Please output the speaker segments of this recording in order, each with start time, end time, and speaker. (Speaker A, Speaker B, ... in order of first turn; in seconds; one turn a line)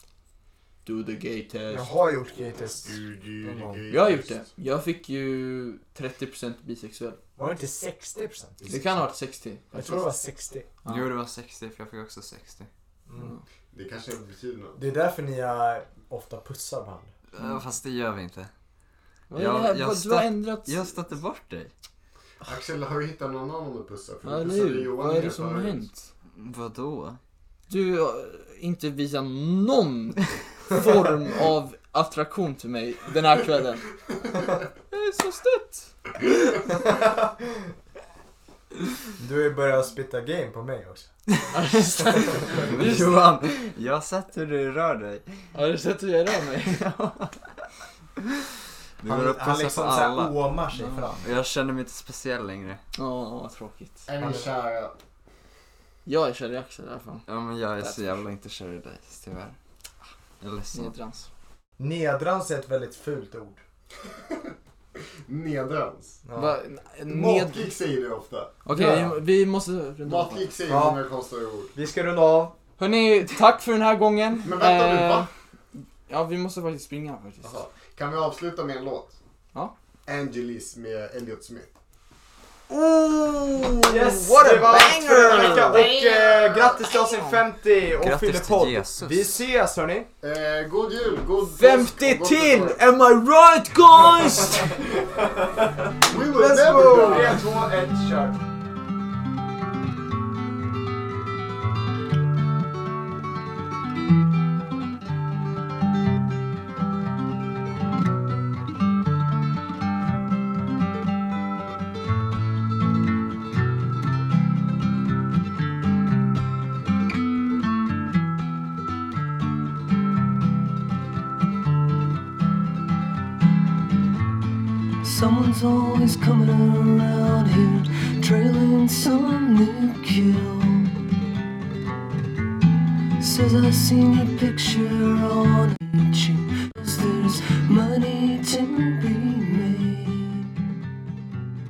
Speaker A: 0.8-1.9
Speaker B: 1.7-3.8
Speaker C: 2.8-4.4
Speaker A: 3.9-7.2
Speaker B: 7.4-8.8
Speaker A: 8.7-10.1
Speaker B: 9.7-10.7
Speaker A: 10.8-11.1
Speaker D: 10.9-12.7
Speaker B: 13.1-13.3
Speaker A: 13.2-13.4
Speaker C: 13.7-14.8
Speaker B: 14.8-17.1
Speaker D: 17.3-18.5
Speaker A: 19.3-20.9
Speaker D: 19.4-21.7
Speaker C: 22.4-25.9
Speaker A: 24.2-26.1
Speaker D: 26.3-27.2
Speaker A: 27.7-33.9
Speaker A: 34.9-35.9
Speaker B: 36.7-37.7
Speaker B: 39.2-41.1
Speaker A: 41.5-43.4
Speaker B: 42.0-42.7
Speaker D: 42.5-45.4
Speaker A: 45.5-46.8
Speaker D: 46.6-47.6
Speaker D: 49.0-50.4
Speaker B: 49.0-51.3
Speaker A: 50.7-51.2
Speaker D: 51.2-52.8
Speaker A: 53.0-54.0
Speaker C: 54.0-55.0
Speaker B: 54.2-54.5
Speaker A: 56.0-57.2
Speaker D: 57.2-59.6
Speaker A: 57.8-58.0
Speaker D: 60.4-60.9
Speaker A: 60.7-61.3
Speaker B: 61.8-63.6
Speaker C: 65.2-66.2
Speaker B: 66.2-66.6
Speaker A: 66.3-67.7
Speaker C: 67.1-68.5
Speaker A: 68.6-70.5
Speaker B: 68.7-69.2
Speaker C: 70.0-71.7
Speaker B: 70.7-71.0
Speaker B: 71.7-72.5
Speaker A: 72.8-75.3
Speaker C: 74.4-75.3
Speaker A: 76.1-77.6
Speaker C: 77.4-79.2
Speaker C: 80.0-81.7
Speaker A: 82.7-85.9
Speaker B: 83.8-90.1
Speaker C: 86.0-86.7
Speaker D: 87.9-89.4
Speaker C: 90.2-92.8
Speaker A: 91.4-94.8
Speaker B: 94.8-98.4
Speaker C: 96.0-97.4
Speaker A: 96.4-97.4
Speaker E: 125.0-130.9
Speaker E: 133.2-140.5